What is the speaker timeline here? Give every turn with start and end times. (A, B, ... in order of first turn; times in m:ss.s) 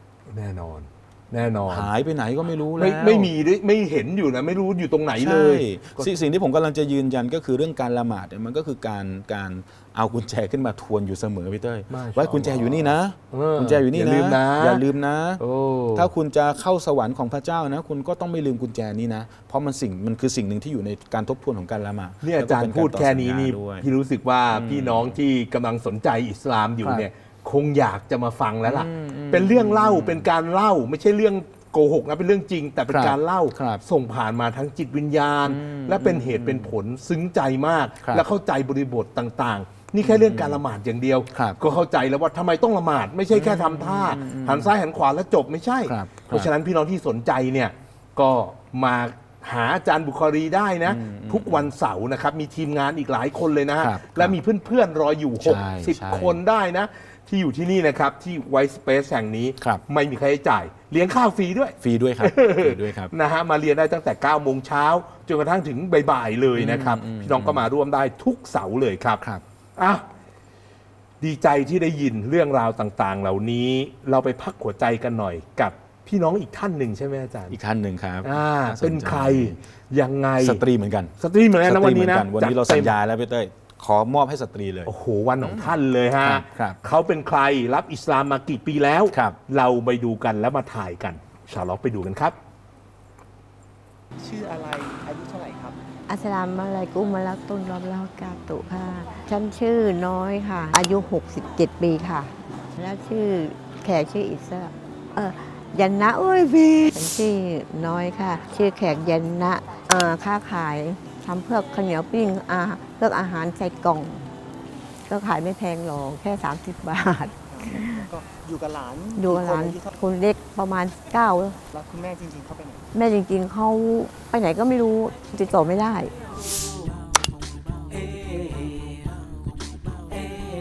0:00.3-0:01.9 A
0:01.7-0:03.3 B
0:02.8-0:06.3 A
0:05.2-0:15.4 B
0:11.9-0:14.8 A
0:15.4-0:16.1 A
0:16.0-0:23.9 B
0:22.2-1:09.2 A
0:24.5-0:25.2 B
0:26.8-0:27.1 B
0:28.6-0:30.3 B
0:32.9-0:33.8 B
0:35.5-0:36.7 B
0:40.0-0:40.6 B
0:41.3-0:41.6 B
0:43.3-0:44.7 B
0:45.9-0:46.5 B
0:50.8-0:51.7 B
0:53.8-0:54.4 B
0:55.4-0:56.4 B
1:01.8-1:03.1 B
1:06.6-1:07.7 B
1:09.8-1:10.0 A
1:11.2-1:17.6 A
1:17.5-1:19.6 B
1:18.2-1:20.6 A
1:20.4-1:26.8 B
1:21.2-1:22.9 A
1:24.9-1:32.4 A
1:29.1-1:29.4 B
1:34.2-1:35.8 C
1:36.1-1:54.3 D
1:55.1-1:58.1 D
1:57.5-1:59.9 C
1:59.2-2:01.6 D
2:01.7-2:02.8 C
2:02.9-2:06.1 D